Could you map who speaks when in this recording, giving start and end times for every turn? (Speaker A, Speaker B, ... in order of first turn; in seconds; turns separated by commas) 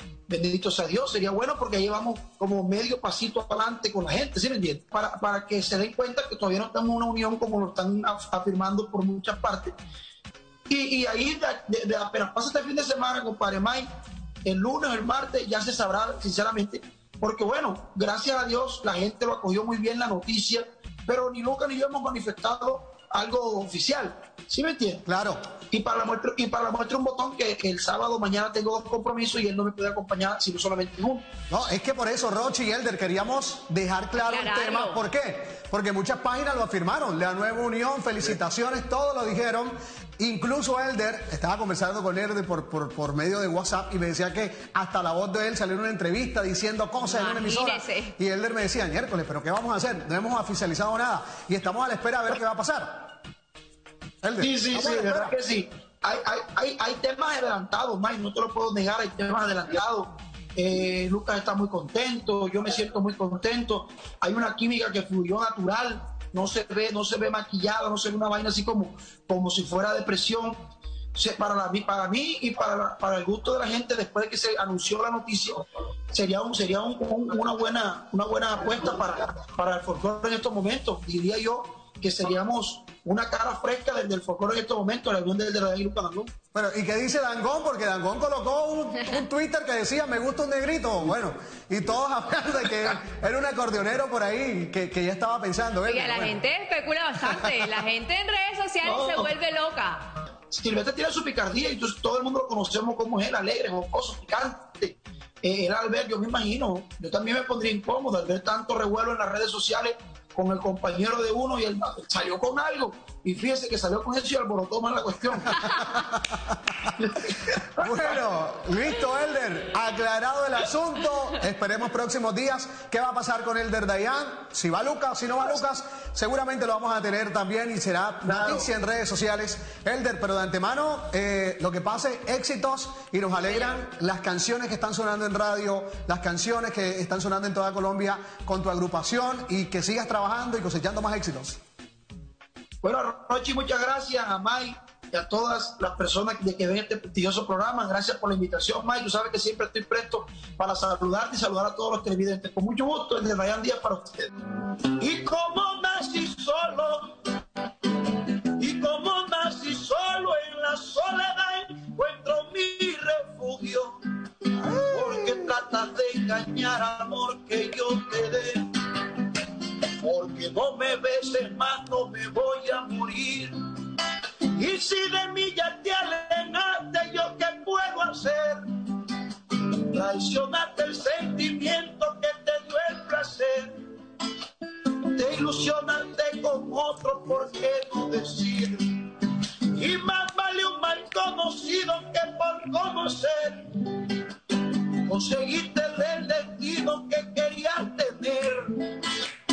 Speaker A: 0.3-9.8, Speaker A: 10.7-13.9, Speaker A: 14.4-25.0, Speaker B: 25.1-25.4, Speaker A: 25.7-31.2, Speaker B: 31.5-53.1, Speaker C: 34.2-35.0, Speaker C: 47.1-48.1, Speaker B: 54.2-55.3, Speaker A: 54.4-70.6, Speaker A: 71.1-86.3, Speaker B: 86.5-96.4, Speaker C: 95.8-100.0, Speaker B: 97.2-97.8, Speaker A: 98.8-99.3, Speaker A: 100.5-115.6, Speaker B: 115.6-116.5, Speaker A: 117.0-117.9, Speaker B: 117.8-141.6, Speaker A: 128.2-128.7, Speaker A: 142.8-154.3, Speaker A: 154.9-157.2, Speaker A: 158.1-164.0, Speaker A: 164.6-168.7, Speaker A: 170.0-173.6, Speaker A: 174.5-178.6, Speaker A: 179.8-183.8, Speaker A: 185.1-198.8